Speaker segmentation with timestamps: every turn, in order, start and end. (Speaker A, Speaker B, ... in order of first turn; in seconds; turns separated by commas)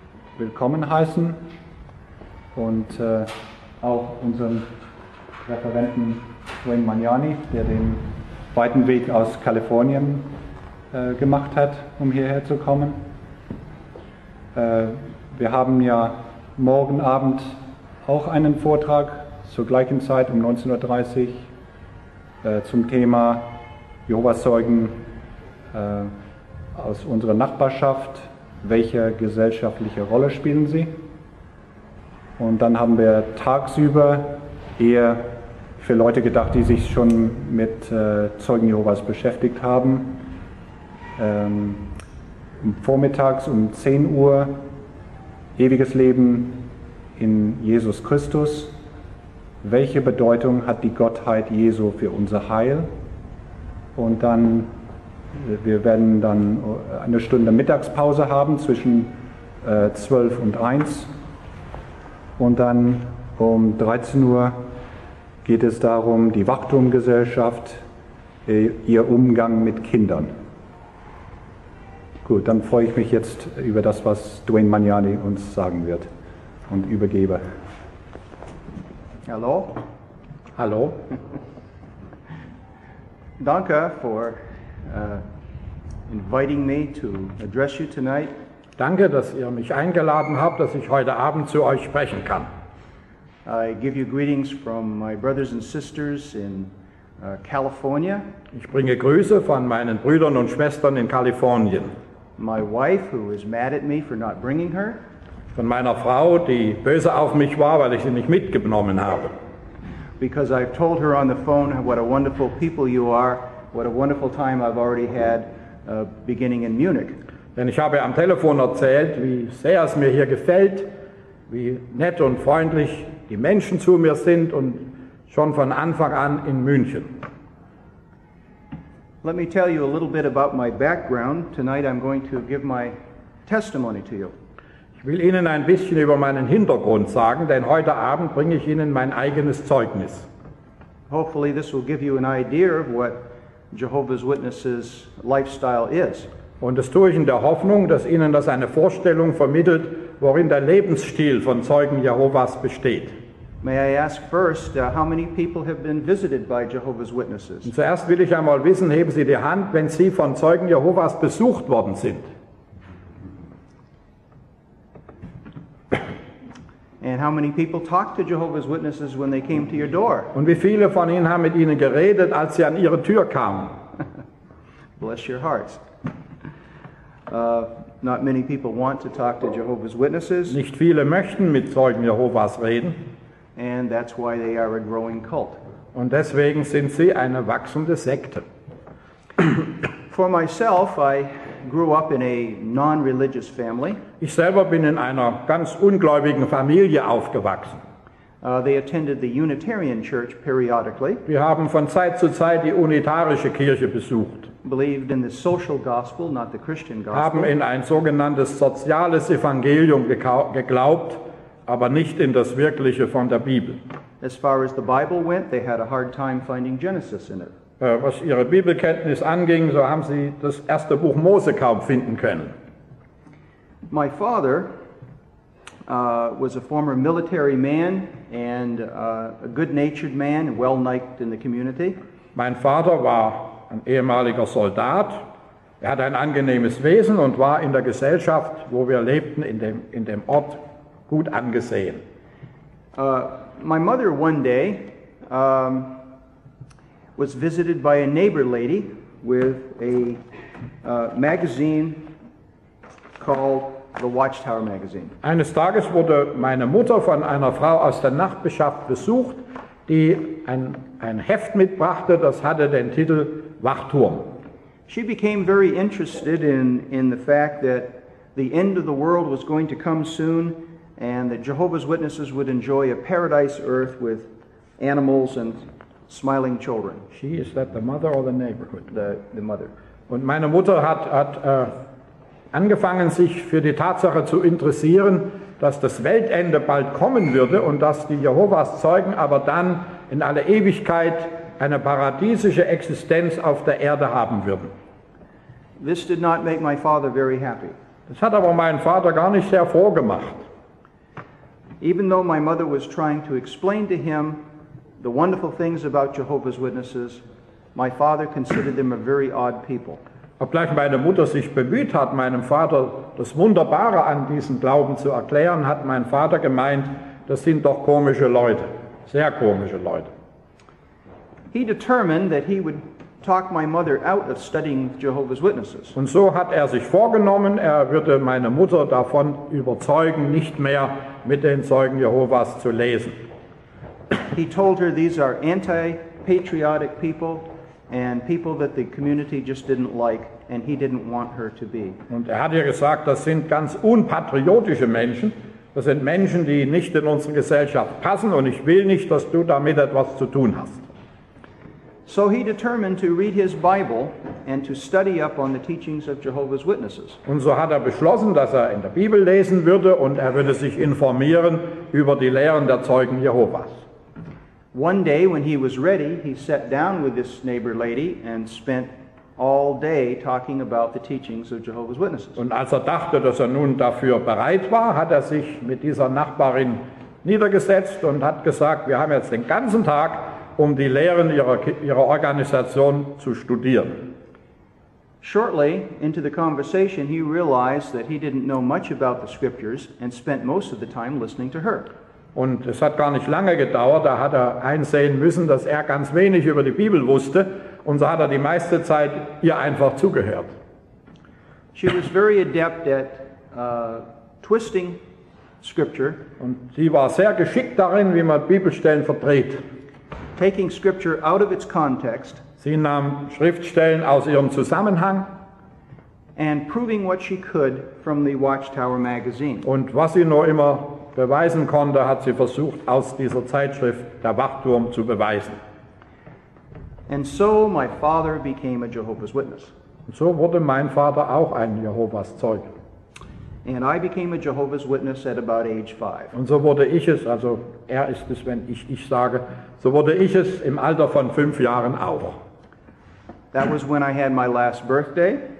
Speaker A: 0.3-1.5, Speaker A: 2.5-4.7, Speaker A: 5.4-10.3, Speaker A: 10.9-13.0, Speaker A: 14.5-21.5, Speaker A: 22.4-23.5, Speaker A: 24.1-25.0, Speaker A: 25.7-26.1, Speaker A: 26.7-31.0, Speaker A: 32.4-40.3, Speaker A: 41.2-41.9, Speaker A: 42.6-44.6, Speaker A: 45.5-48.8, Speaker A: 49.6-52.9, Speaker A: 53.9-54.7, Speaker A: 55.3-61.1, Speaker A: 62.4-64.7, Speaker A: 65.4-67.8, Speaker A: 68.5-70.3, Speaker A: 72.2-76.1, Speaker A: 76.7-77.4, Speaker B: 79.2-79.8, Speaker C: 80.5-81.0, Speaker B: 83.4-85.2, Speaker B: 86.1-88.3, Speaker C: 88.8-92.5, Speaker B: 93.5-98.3, Speaker C: 98.5-101.9, Speaker B: 102.4-105.0, Speaker C: 105.5-109.3, Speaker B: 110.2-117.2, Speaker C: 117.5-120.9, Speaker C: 121.5-127.2, Speaker B: 129.2-134.3, Speaker C: 135.0-140.3, Speaker B: 141.1-143.2, Speaker B: 143.7-146.3, Speaker C: 146.6-153.1, Speaker B: 153.6-157.7, Speaker C: 157.6-162.3, Speaker B: 167.0-170.3, Speaker C: 170.3-173.7, Speaker B: 175.0-175.8, Speaker B: 177.3-180.6, Speaker C: 180.5-183.0, Speaker B: 183.6-185.6, Speaker C: 185.9-188.4, Speaker B: 190.1-194.0, Speaker C: 194.2-197.8, Speaker B: 198.4-201.2, Speaker C: 201.3-204.5, Speaker B: 204.6-207.5, Speaker C: 207.1-213.8, Speaker B: 214.2-217.5, Speaker C: 217.8-222.5, Speaker B: 223.9-224.7, Speaker B: 225.9-232.0, Speaker C: 232.3-235.3, Speaker C: 235.8-242.0, Speaker B: 242.9-246.0, Speaker B: 247.2-250.2, Speaker B: 250.8-252.1, Speaker B: 253.2-255.1, Speaker C: 255.2-264.3, Speaker B: 264.9-277.0, Speaker C: 277.1-278.9, Speaker B: 278.9-279.7, Speaker C: 280.1-281.7, Speaker C: 282.5-294.7, Speaker B: 295.8-297.8, Speaker C: 298.1-300.4, Speaker B: 301.8-304.4, Speaker B: 305.0-307.2, Speaker B: 307.7-310.0, Speaker C: 310.4-320.1, Speaker B: 321.5-325.9, Speaker C: 325.9-333.2, Speaker B: 334.3-342.0, Speaker C: 342.1-350.8, Speaker B: 352.1-357.2, Speaker C: 357.2-363.7, Speaker B: 364.7-372.4, Speaker C: 372.4-384.1, Speaker B: 385.2-391.9, Speaker C: 392.3-400.5, Speaker B: 401.7-405.0, Speaker B: 405.6-406.2, Speaker C: 406.4-409.6, Speaker B: 410.4-412.4, Speaker C: 412.6-415.3, Speaker B: 416.4-419.6, Speaker C: 419.6-425.6, Speaker B: 427.1-429.7, Speaker C: 430.1-432.7, Speaker B: 433.6-436.3, Speaker C: 436.3-442.4, Speaker B: 443.5-445.4